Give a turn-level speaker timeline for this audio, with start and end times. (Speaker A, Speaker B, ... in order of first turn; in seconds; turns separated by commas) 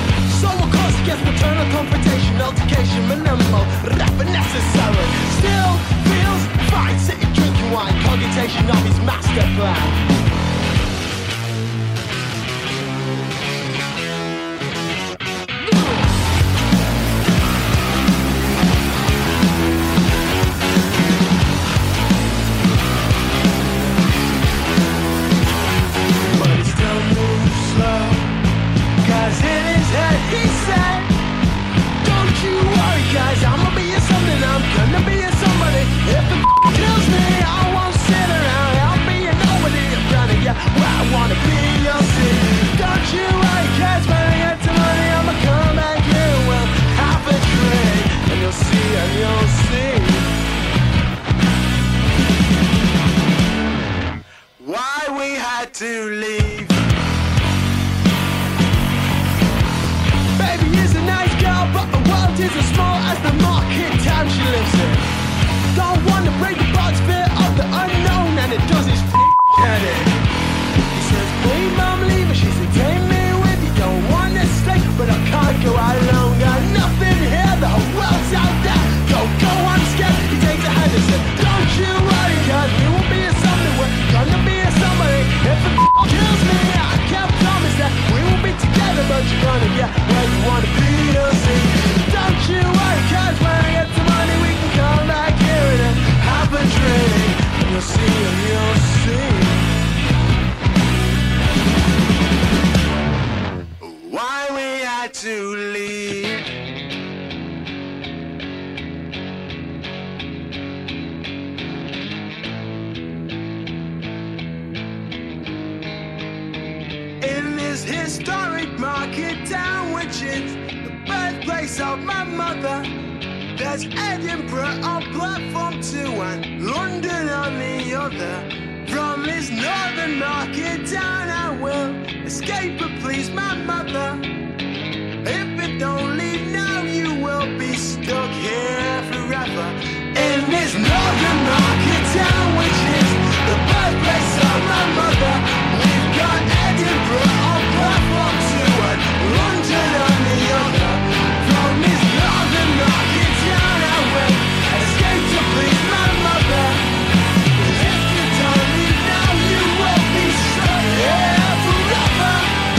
Speaker A: 0.2-10.2, Speaker A: 26.3-28.4, Speaker A: 29.0-31.1, Speaker A: 32.0-50.3, Speaker A: 54.6-56.8, Speaker A: 60.4-65.1, Speaker A: 65.7-70.2, Speaker A: 70.9-99.7, Speaker A: 103.8-106.5, Speaker A: 117.2-122.9, Speaker A: 123.5-134.3, Speaker A: 135.2-156.9, Speaker A: 157.6-162.6